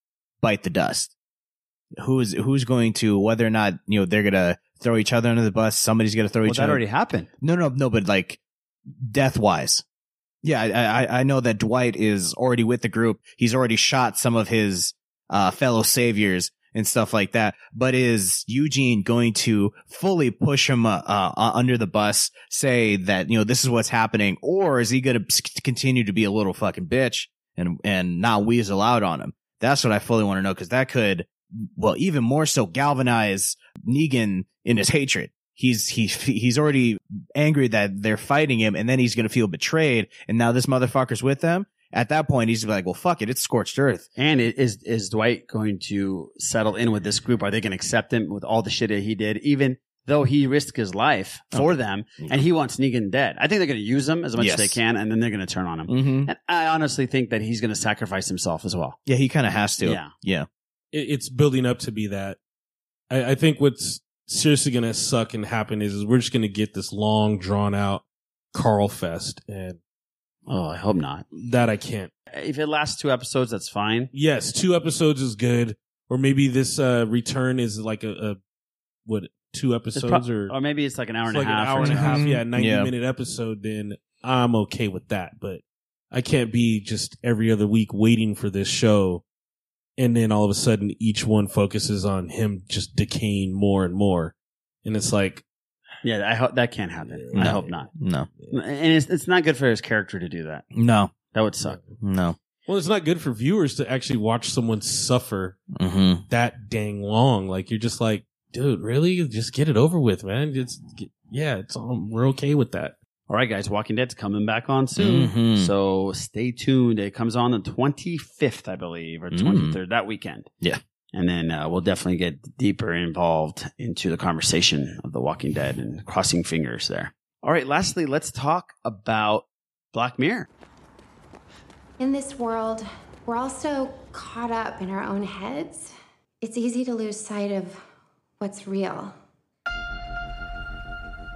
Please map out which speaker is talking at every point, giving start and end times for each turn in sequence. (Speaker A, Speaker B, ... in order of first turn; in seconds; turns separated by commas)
Speaker A: 0.4-1.1, Speaker A: 2.0-6.8, Speaker B: 6.5-7.3, Speaker A: 7.4-8.4, Speaker A: 9.0-9.8, Speaker A: 10.4-44.1, Speaker B: 44.2-59.0, Speaker A: 51.5-52.4, Speaker A: 54.4-54.8, Speaker A: 55.9-56.3, Speaker A: 59.1-60.5, Speaker B: 59.8-60.1, Speaker C: 60.9-62.4, Speaker C: 63.1-69.8, Speaker B: 70.5-71.3, Speaker C: 71.3-72.1, Speaker B: 72.3-74.1, Speaker C: 74.1-78.4, Speaker C: 79.1-80.5, Speaker B: 79.9-82.2, Speaker C: 81.3-85.6, Speaker A: 81.8-82.9, Speaker C: 86.1-89.2, Speaker C: 90.0-94.3, Speaker C: 94.8-95.4, Speaker B: 96.0-97.9, Speaker C: 97.0-97.8, Speaker A: 97.4-98.3, Speaker B: 98.5-100.7, Speaker A: 100.7-101.1, Speaker B: 101.3-101.8, Speaker A: 102.0-102.3, Speaker C: 102.7-105.6, Speaker A: 105.8-106.2, Speaker C: 106.3-113.0, Speaker B: 113.3-120.5, Speaker A: 115.0-115.7, Speaker A: 119.3-119.8, Speaker B: 121.1-130.5, Speaker D: 132.0-135.9, Speaker D: 136.4-137.8, Speaker D: 138.4-139.1